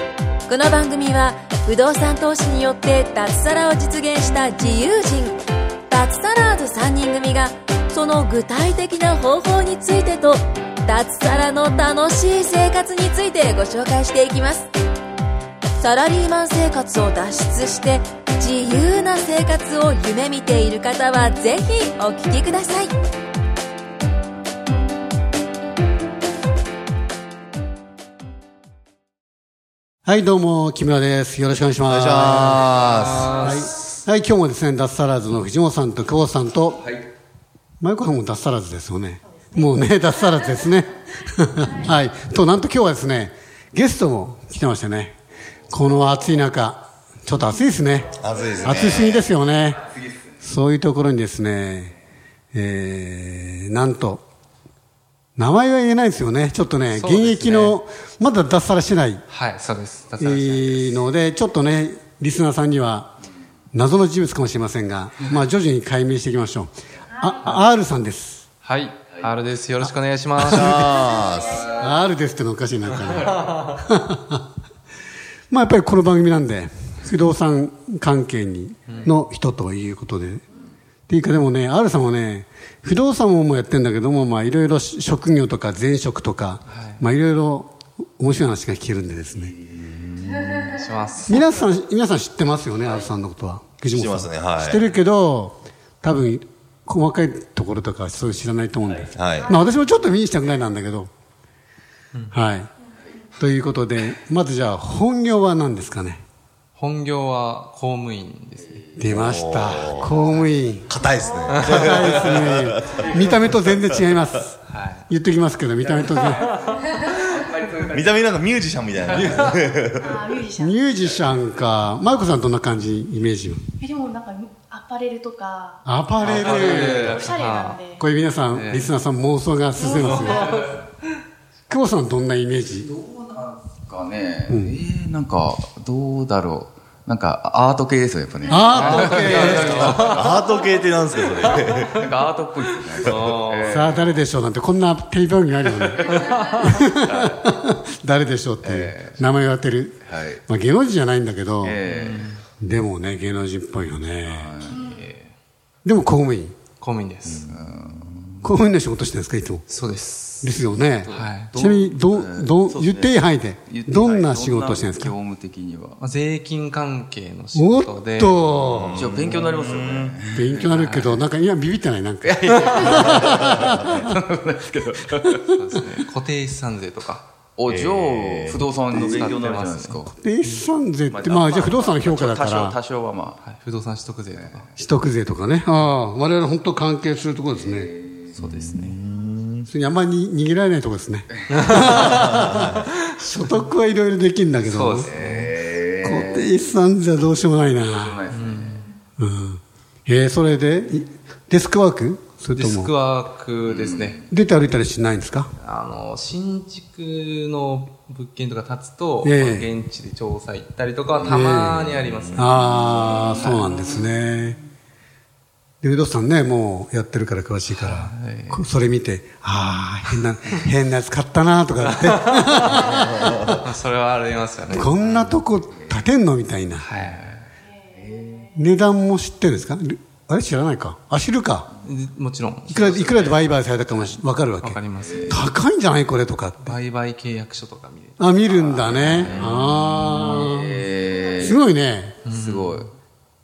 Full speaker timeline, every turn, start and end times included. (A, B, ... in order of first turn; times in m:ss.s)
0:00.5-0:14.7 A
0:15.8-0:22.9 A
0:30.0-0:32.8 B
0:31.8-0:33.3 C
0:32.6-0:33.7 D
0:33.3-0:36.9 B
0:37.8-0:45.1 B
0:45.7-0:49.9 B
0:48.1-0:49.2 C
0:50.4-0:52.0 B
0:52.5-0:54.2 B
0:55.4-0:59.2 B
0:56.9-0:57.8 D
0:59.3-1:01.0 D
1:00.2-1:03.2 B
1:03.7-1:08.4 B
1:08.6-1:10.9 D
1:10.4-1:14.4 B
1:10.5-1:11.7 C
1:15.5-1:20.4 B
1:21.1-1:29.5 B
1:26.7-1:27.0 D
1:30.5-1:31.5 D
1:31.3-1:41.1 B
1:33.9-1:34.8 C
1:39.1-1:39.5 C
1:42.3-1:42.7 B
1:43.4-1:46.2 B
1:46.7-1:49.0 D
1:49.0-1:50.9 B
1:49.2-1:50.1 C
1:50.9-1:54.1 C
1:51.5-1:52.0 D
1:51.6-1:54.6 B
1:54.6-1:55.1 D
1:55.1-1:56.5 B
1:57.2-1:58.0 E
1:57.8-2:00.2 C
1:59.2-1:59.5 D
2:00.0-2:00.8 F
2:00.6-2:03.6 B
2:03.8-2:08.0 F
2:05.8-2:07.1 B
2:06.2-2:07.8 D
2:08.0-2:10.5 B
2:08.5-2:08.9 D
2:09.8-2:10.6 F
2:11.7-2:12.9 B
2:12.8-2:20.2 E
2:14.5-2:14.8 B
2:18.4-2:20.0 B
2:18.7-2:20.2 D
2:20.0-2:22.0 C
2:21.9-2:24.0 E
2:23.0-2:24.1 D
2:23.0-2:23.3 C
2:23.6-2:31.8 B
2:28.6-2:29.2 E
2:30.0-2:30.4 E
2:31.6-2:32.3 E
2:31.8-2:32.4 D
2:32.6-2:34.6 B
2:34.2-2:35.1 E
2:34.8-2:35.3 D
2:35.8-2:36.5 B
2:36.8-2:37.5 D
2:37.4-2:38.5 E
2:38.4-2:39.6 B
2:39.7-2:41.6 D
2:40.4-2:45.1 B
2:41.0-2:46.0 E
2:46.0-2:48.4 D
2:47.5-2:49.3 B
2:48.4-2:50.2 C
2:48.9-2:50.7 E
2:50.3-2:54.1 B
2:50.7-2:51.2 D
2:52.2-2:55.4 E
2:53.2-2:54.1 C
2:55.5-2:57.3 D
2:57.6-3:00.1 E
2:57.6-2:58.7 C
2:58.9-3:00.6 D
2:58.9-2:59.4 B
3:00.0-3:02.8 B
3:01.1-3:03.4 E
3:03.4-3:04.7 D
3:04.3-3:04.6 E
3:04.8-3:07.9 B
3:07.7-3:08.3 E
3:08.4-3:09.0 D
3:08.4-3:09.7 C
3:09.7-3:15.1 B
3:11.5-3:12.6 D
3:12.0-3:12.9 C
3:14.6-3:15.5 D
3:15.0-3:16.6 E
3:16.0-3:18.2 B
3:17.8-3:18.8 E
3:18.3-3:18.8 D
3:19.2-3:22.9 B
3:22.5-3:24.2 D
3:23.7-3:24.2 E
3:24.3-3:25.5 B
3:25.6-3:33.8 D
3:29.2-3:29.7 B
3:31.2-3:34.6 B
3:32.8-3:34.0 E
3:35.8-3:43.6 B
3:37.7-3:38.7 D
3:41.8-3:45.2 D
3:44.7-3:46.9 B
3:45.2-3:46.0 E
3:46.8-3:47.2 D
3:47.0-3:48.5 E
3:48.5-3:51.7 B
3:51.8-3:55.4 D
3:52.7-3:56.8 B
3:55.0-3:55.3 E
3:56.6-3:59.7 D
3:58.2-4:00.8 B
3:58.8-4:01.6 E
4:01.4-4:02.2 B
4:02.2-4:02.9 D
4:02.3-4:02.9 E